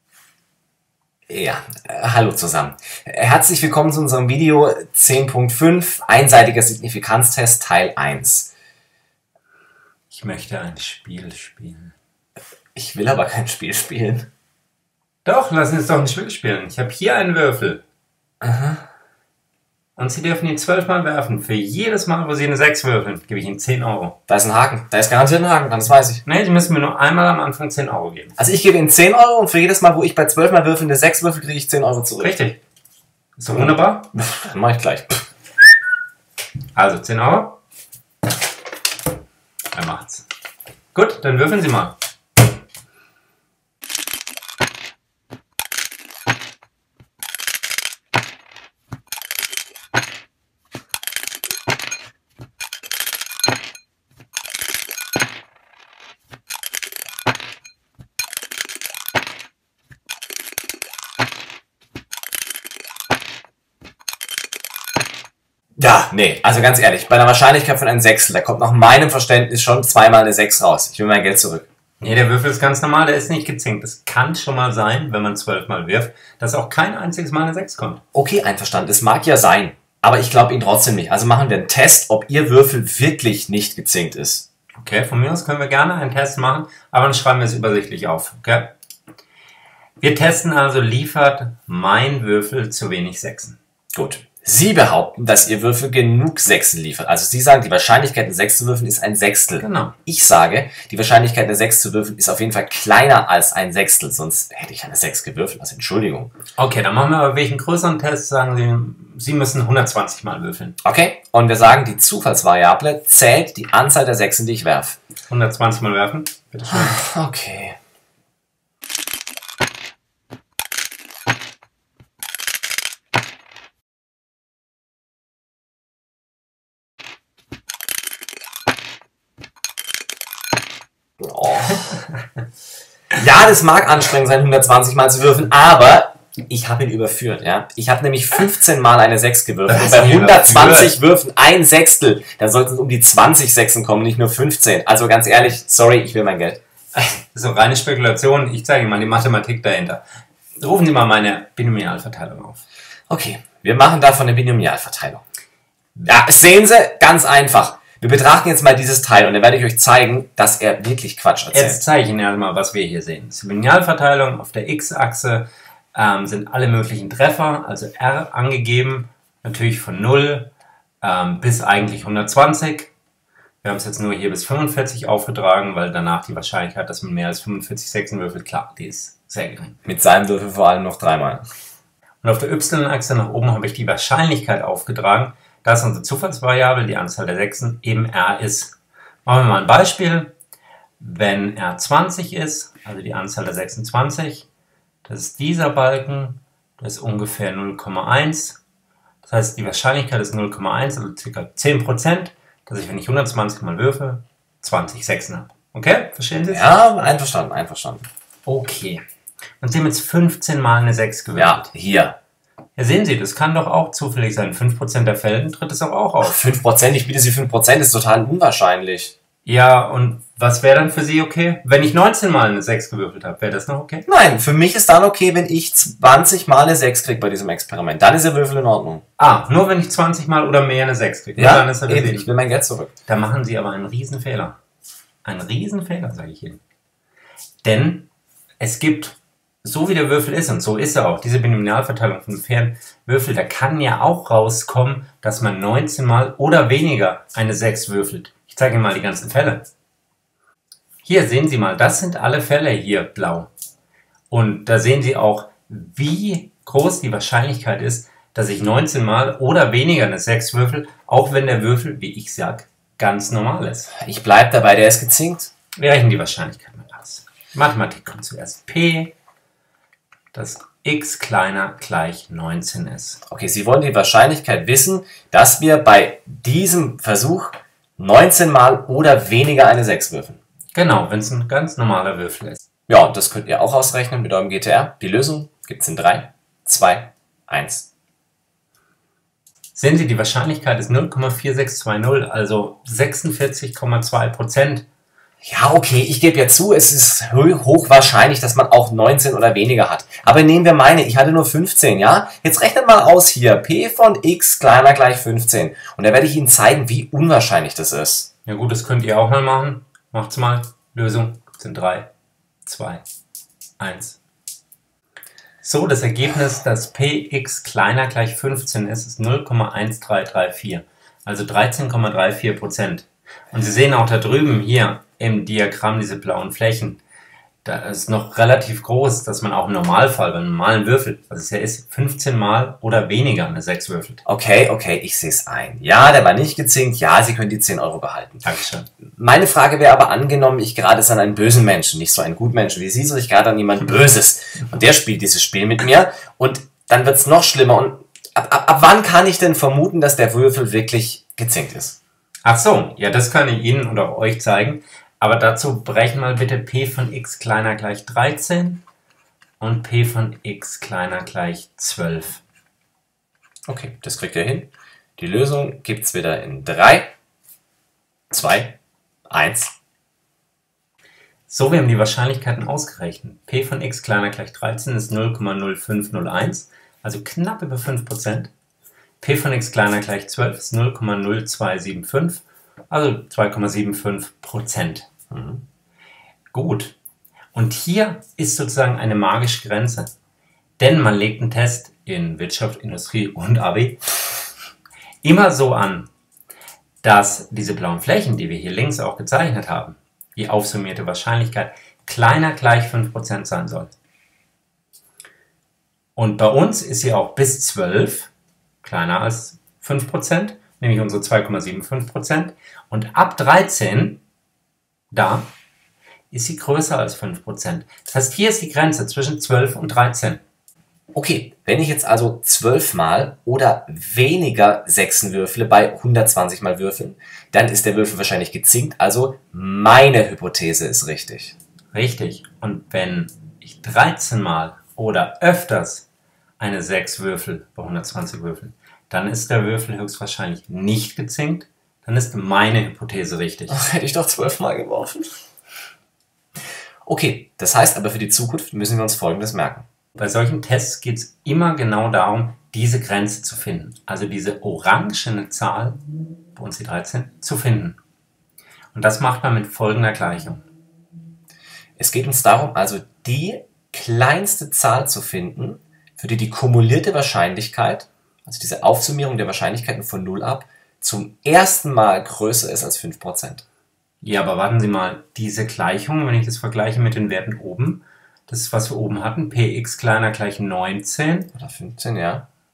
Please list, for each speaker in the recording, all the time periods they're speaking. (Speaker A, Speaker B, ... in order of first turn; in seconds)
Speaker A: 1.3-8.5, 12.8-14.3, 18.4-18.8, 24.3-26.2, 28.4-32.4, 33.5-35.2, 65.8-71.7, 78.1-84.5, 93.9-106.3, 110.8-115.0, 116.7-117.8, 131.2-131.9, 133.1-146.6, 153.1-155.2, 156.0-161.8, 179.8-181.4, 206.5-208.1, 211.4-212.2, 216.2-219.2, 224.1-229.0, 231.4-232.9, 264.0-265.5, 273.3-280.4, 282.9-287.9, 295.4-308.3, 334.2-338.4, 339.1-352.0, 363.7-367.1, 368.3-368.8, 369.3-369.8, 385.3-385.6, 421.1-431.6, 443.7-445.4, 447.1-449.9, 462.0-473.6, 481.5-482.5
Speaker B: 10.1-11.9, 15.2-17.8, 20.0-24.2, 26.3-28.4, 32.2-32.6, 33.4-34.1, 36.8-37.6, 39.7-40.2, 40.9-42.0, 72.0-78.0, 84.8-88.7, 90.0-93.6, 99.6-100.0, 106.6-110.8, 115.3-117.0, 139.7-141.0, 146.9-150.0, 150.6-152.6, 161.5-172.9, 173.6-179.8, 182.2-190.3, 191.0-194.5, 195.1-198.6, 199.2-206.8, 208.5-209.0, 209.6-211.7, 212.8-216.4, 219.4-224.1, 229.2-232.3, 233.1-234.6, 235.2-236.6, 237.6-249.7, 251.0-253.5, 254.3-263.9, 265.8-269.1, 270.3-273.2, 280.7-282.6, 289.8-294.9, 308.5-312.1, 312.6-313.0, 313.8-314.2, 315.6-327.0, 327.6-334.2, 338.4-338.9, 352.4-358.8, 359.6-362.4, 371.5-378.5, 379.2-385.1, 386.5-387.0, 387.5-390.1, 390.8-394.0, 395.2-396.1, 397.0-403.9, 406.2-408.3, 408.8-414.2, 415.1-415.5, 416.3-420.4, 431.9-436.1, 436.6-443.8, 450.2-458.0, 458.9-460.6, 474.2-481.5